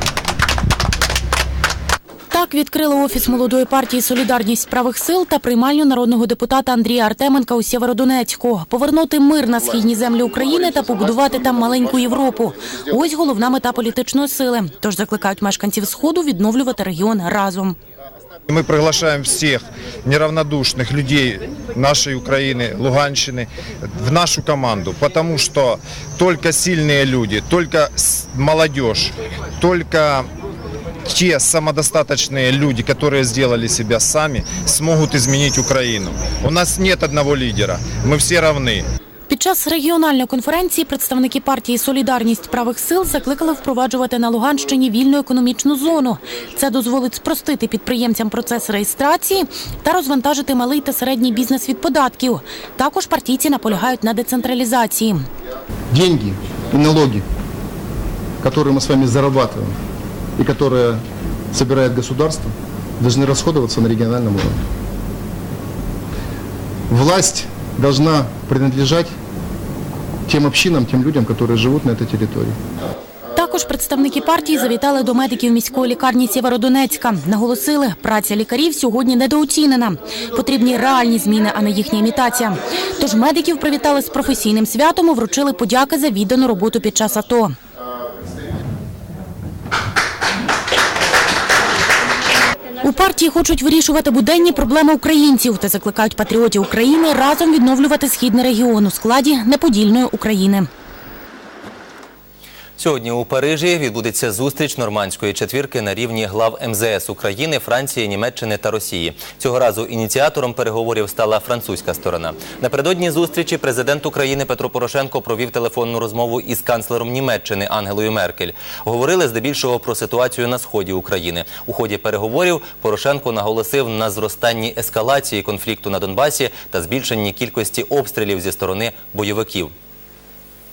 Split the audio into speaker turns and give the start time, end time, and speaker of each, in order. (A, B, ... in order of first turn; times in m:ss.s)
0:02.3-0:17.8 A
0:18.5-0:30.3 B
0:31.1-0:38.8 B
0:39.3-0:55.3 A
0:55.9-0:57.2 C
0:58.4-0:59.8 C
1:00.4-1:04.6 C
1:06.9-1:09.1 C
1:10.3-1:12.6 C
1:13.3-1:27.5 A
1:32.8-1:40.7 A
1:42.8-2:09.7 D